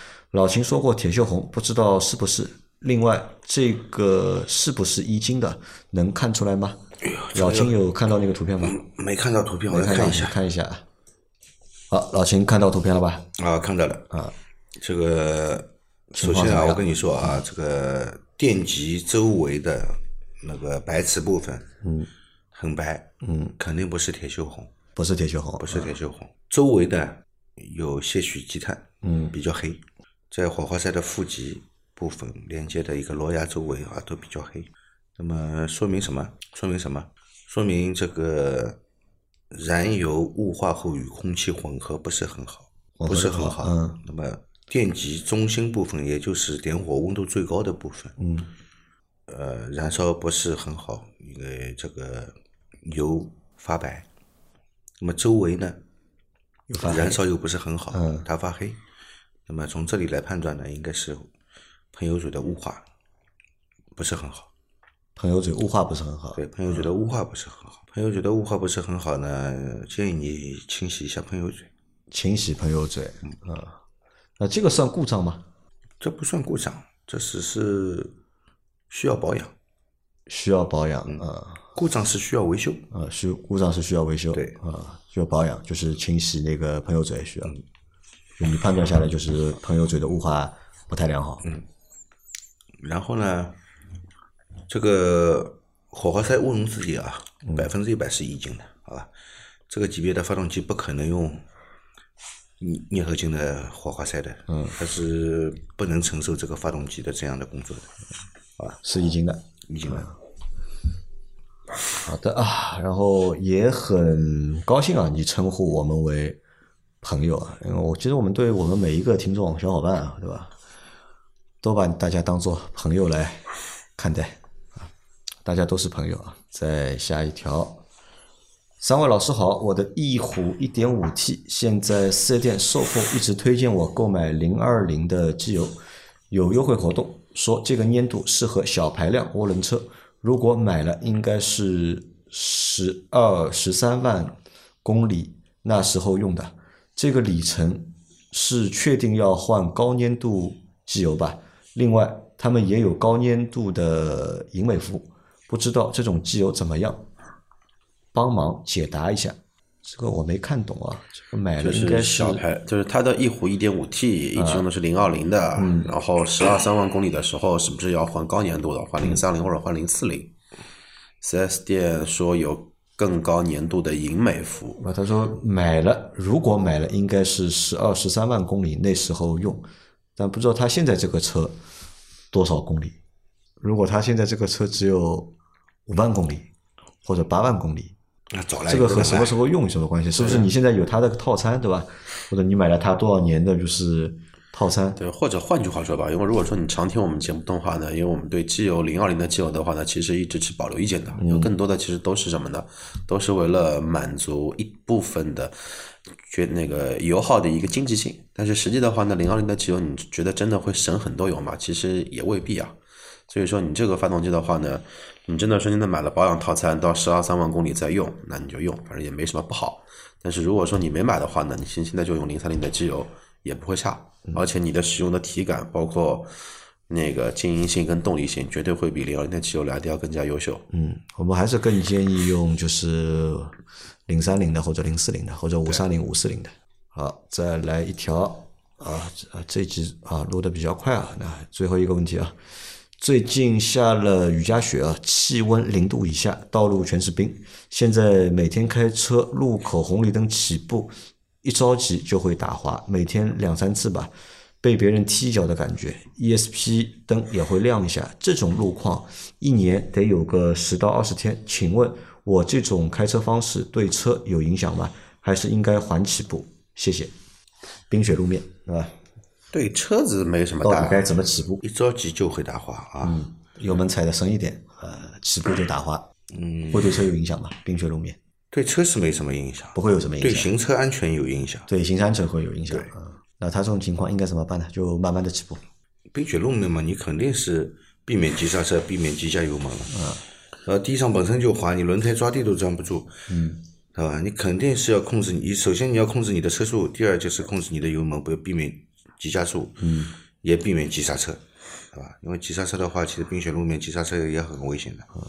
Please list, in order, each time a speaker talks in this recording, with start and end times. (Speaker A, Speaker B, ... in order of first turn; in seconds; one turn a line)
Speaker A: 0.3-6.8
Speaker B: 7.0-7.7
Speaker A: 7.3-8.8
Speaker B: 8.6-10.4
Speaker A: 9.7-10.8
Speaker A: 11.9-13.2
Speaker B: 13.4-14.1
Speaker B: 14.8-21.6
Speaker A: 16.1-17.4
Speaker A: 21.8-22.1
Speaker B: 22.5-23.1
Speaker A: 23.2-23.6
Speaker B: 23.6-24.7
Speaker A: 24.9-25.9
Speaker B: 25.6-29.8
Speaker A: 29.0-29.3
Speaker B: 30.3-38.8
Speaker B: 39.5-48.1
Speaker A: 43.0-44.0
Speaker A: 48.2-48.5
Speaker B: 49.3-52.3
Speaker B: 52.8-54.0
Speaker B: 55.0-55.8
Speaker A: 56.7-57.2
Speaker B: 56.8-58.8
Speaker A: 57.9-58.2
Speaker B: 59.5-61.3
Speaker B: 61.9-62.8
Speaker B: 64.0-64.5
Speaker A: 65.2-66.9
Speaker B: 66.3-71.7
Speaker A: 72.1-73.8
Speaker A: 74.4-75.4
Speaker B: 76.0-78.1
Speaker B: 78.9-79.5
Speaker A: 80.3-81.6
Speaker B: 81.0-82.8
Speaker A: 82.9-87.5
Speaker A: 88.4-91.4
Speaker B: 92.8-93.6
Speaker B: 94.7-99.1
Speaker B: 99.7-101.4
Speaker B: 102.6-107.9
Speaker A: 104.5-104.8
Speaker A: 108.8-110.1
Speaker B: 109.7-110.1
Speaker A: 112.0-116.4
Speaker A: 117.0-120.5
Speaker A: 121.6-124.9
Speaker A: 125.4-127.8
Speaker A: 128.8-135.8
Speaker A: 136.3-157.1
Speaker A: 158.1-162.4
Speaker C: 161.6-170.3
Speaker A: 164.3-164.7
Speaker A: 165.6-165.9
Speaker C: 171.2-174.8
Speaker A: 174.8-181.6
Speaker A: 182.3-183.0
Speaker A: 183.6-185.3
Speaker A: 185.9-186.5
Speaker A: 187.0-187.9
Speaker B: 188.3-189.4
Speaker A: 188.7-195.0
Speaker C: 190.2-190.5
Speaker C: 194.9-212.8
Speaker A: 201.2-201.5
Speaker C: 213.3-230.6
Speaker A: 230.7-233.6
Speaker A: 234.1-242.3
Speaker A: 243.0-250.9
Speaker A: 251.4-267.1
Speaker A: 267.9-268.9
Speaker C: 269.5-271.1
Speaker A: 270.6-271.6
Speaker B: 271.6-273.2
Speaker A: 273.0-276.0
Speaker B: 276.3-277.0
Speaker A: 276.7-278.2
Speaker B: 278.5-281.7
Speaker A: 279.7-280.5
Speaker A: 281.7-285.6
Speaker B: 286.1-290.0
Speaker A: 289.9-290.2
Speaker B: 290.6-293.1
Speaker A: 293.3-293.6
Speaker B: 293.9-299.8
Speaker A: 299.8-300.1
Speaker B: 300.4-301.4
Speaker B: 301.9-305.1